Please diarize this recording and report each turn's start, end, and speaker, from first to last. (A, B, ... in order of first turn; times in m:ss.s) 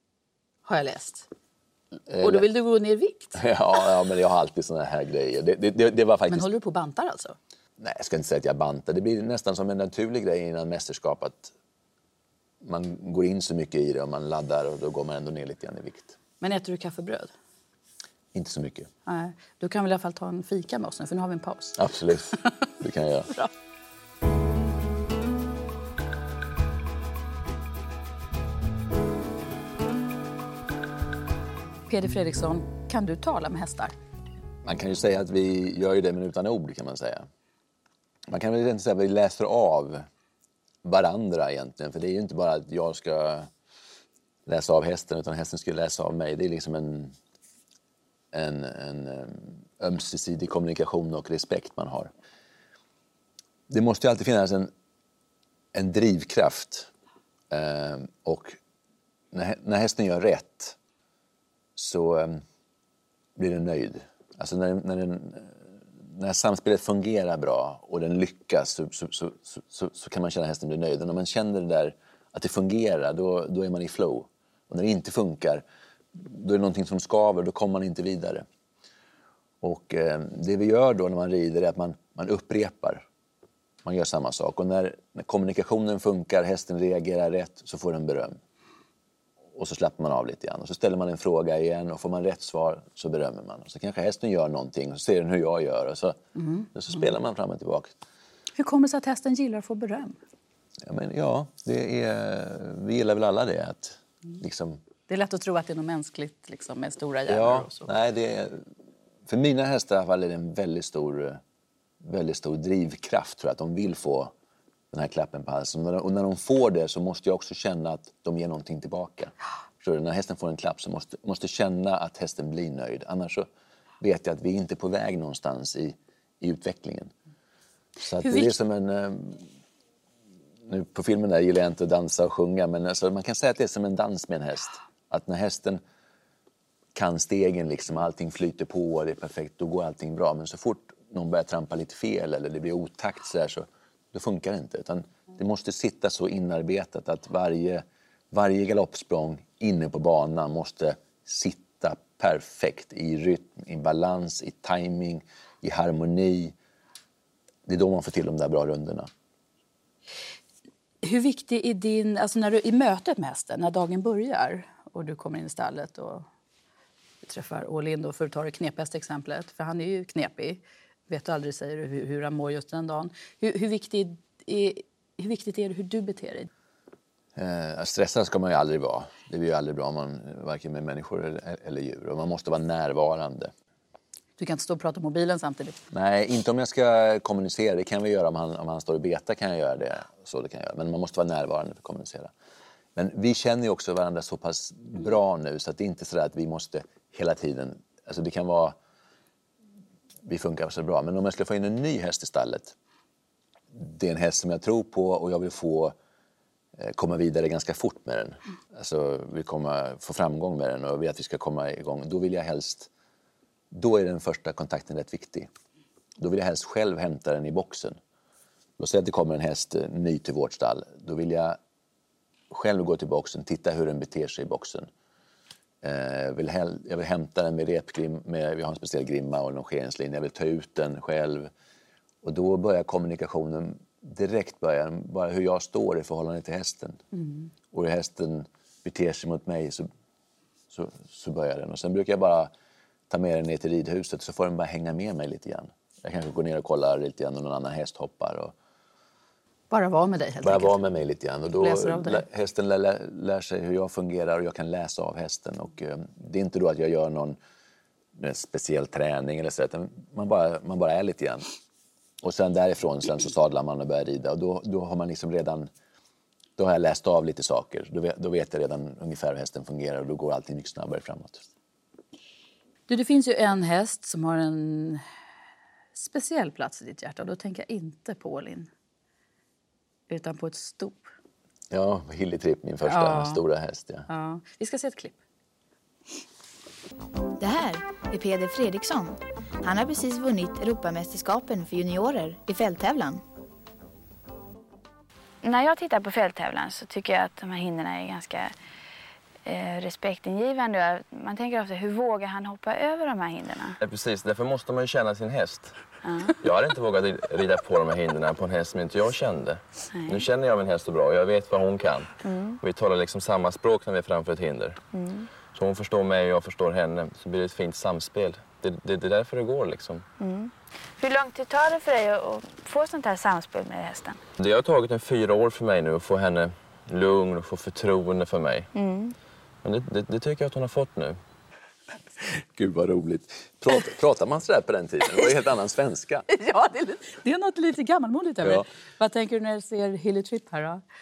0:00.7-0:01.3 A
0:02.1-0:02.5 B
0:02.2-0:03.4 A
0:03.4-0:06.5 B
0:06.3-0:07.4 A
0:07.8-0:11.5 B
0:12.6-0:16.2 B
0:16.4-0:17.3 A
0:18.3-0:18.9 B
0:19.1-0:21.8 A
0:21.8-0:23.3 B
0:31.9-0:34.0 A
0:34.6-0:37.3 B
0:38.3-0:40.1 B
0:40.8-0:43.5 B
0:44.5-0:47.2 B
0:48.3-0:52.1 B
0:53.7-0:54.7 B
0:55.7-0:56.9 B
0:57.5-0:58.6 B
0:59.3-1:00.8 B
1:01.8-1:02.4 B
1:03.4-1:18.5 B
1:19.6-1:23.1 B
1:23.8-1:28.4 B
1:29.6-1:36.2 B
1:36.4-1:36.7 A
1:36.7-1:37.9 B
1:38.6-1:40.2 A
1:40.8-1:44.8 B
1:45.1-1:47.9 A
1:47.3-1:48.7 B
1:49.3-1:51.4 B
1:52.0-1:54.3 B
1:54.9-2:03.5 B
2:04.0-2:07.1 B
2:08.0-2:09.5 B
2:08.2-2:08.5 A
2:10.6-2:15.8 B
2:17.0-2:36.6 B
2:37.7-2:39.1 B
2:41.0-2:46.3 A
2:47.2-2:56.5 A
2:57.4-3:03.5 B
3:04.4-3:05.8 A
3:05.9-3:12.3 B
3:13.0-3:18.8 B
3:20.2-3:22.7 B
3:23.7-3:26.0 B
3:26.8-3:32.9 B
3:33.7-3:35.5 B
3:36.2-3:38.0 B
3:38.8-3:41.6 B
3:42.5-3:44.9 B
3:45.8-3:51.5 B
3:52.2-3:57.0 B
3:57.1-3:57.5 A
3:57.7-3:59.9 B
4:00.7-4:02.5 B
4:03.1-4:08.5 B
4:09.7-4:10.8 A
4:10.4-4:17.4 B
4:11.6-4:12.2 A
4:18.2-4:21.5 B
4:22.2-4:25.7 B
4:26.6-4:31.5 B
4:32.9-4:35.0 A
4:36.0-4:38.7 A
4:40.1-4:41.1 A
4:41.7-4:44.1 B
4:42.9-4:43.4 A
4:44.1-4:45.2 A
4:47.4-4:53.2 C
4:55.4-4:58.5 D
4:59.4-5:03.8 D
5:03.8-5:05.8 E
5:06.0-5:06.4 D
5:06.4-5:14.8 E
5:09.9-5:10.2 D
5:12.2-5:12.6 D
5:14.9-5:15.3 D
5:15.5-5:20.1 E
5:20.2-5:24.2 D
5:24.4-5:28.7 E
5:28.7-5:29.2 D
5:29.6-5:31.2 E
5:32.2-5:36.3 B
5:36.3-5:40.8 A
5:38.4-5:38.7 B